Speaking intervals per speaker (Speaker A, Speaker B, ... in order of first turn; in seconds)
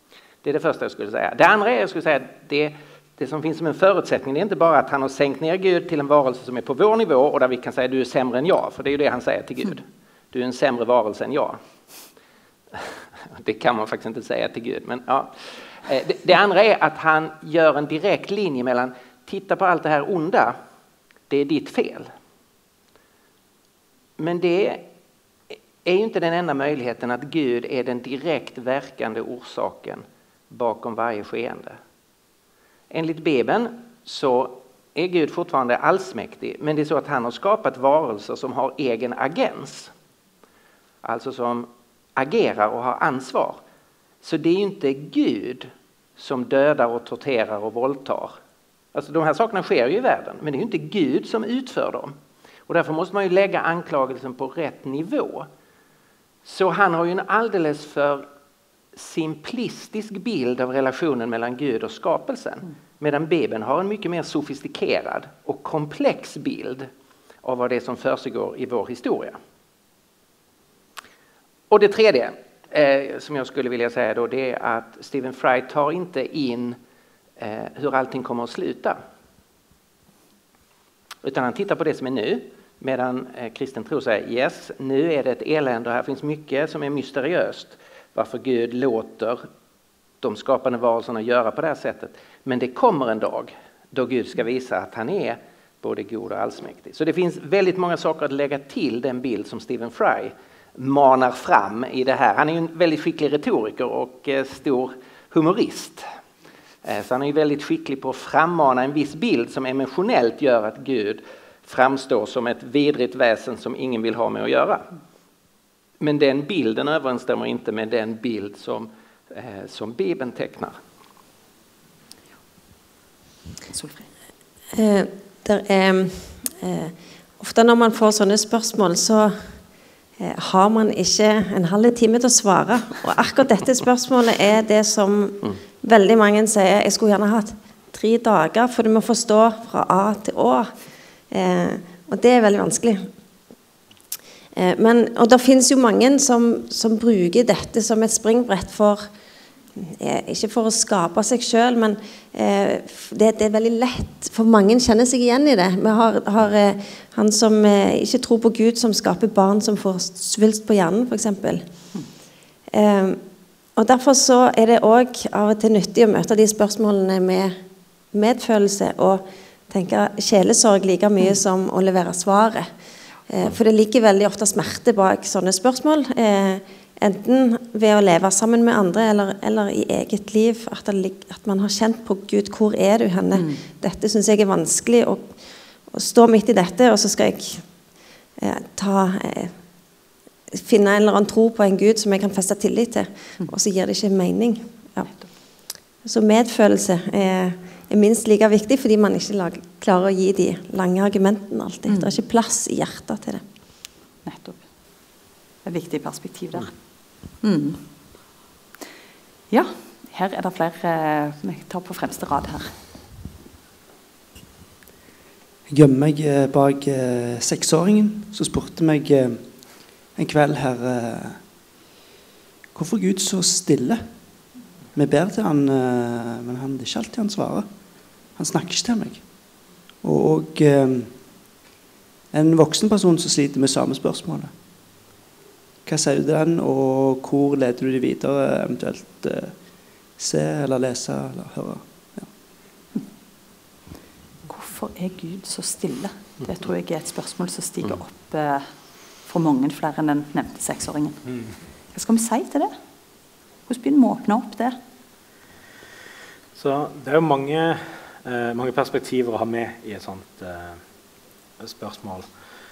Speaker A: 0.4-11.6, 12.8-20.6, 21.3-22.1, 24.2-24.9, 25.5-31.8, 32.9-39.9, 41.0-43.6, 44.2-48.4, 48.9-52.1, 52.7-55.5, 56.4-58.2, 58.9-66.9, 67.4-69.4, 71.7-76.8, 77.4-79.0, 81.2-89.4, 90.2-106.0, 106.8-114.9, 116.0-120.8
Speaker B: 123.7-124.1, 183.3-183.6, 195.0-195.3, 201.9-202.2, 204.2-204.6, 205.6-207.8, 209.5-212.8, 244.5-248.7, 249.2-251.2, 251.9-252.7, 253.7-254.8
Speaker C: 124.7-143.1, 144.6-149.1, 149.8-161.6, 162.7-163.2, 163.7-167.6, 168.1-172.7, 173.3-187.7, 188.4-189.6, 190.5-203.4
Speaker D: 215.7-221.5, 222.7-231.3, 232.3-234.6, 235.8-242.3
Speaker E: 251.2-251.6, 256.5-260.8, 261.6-262.3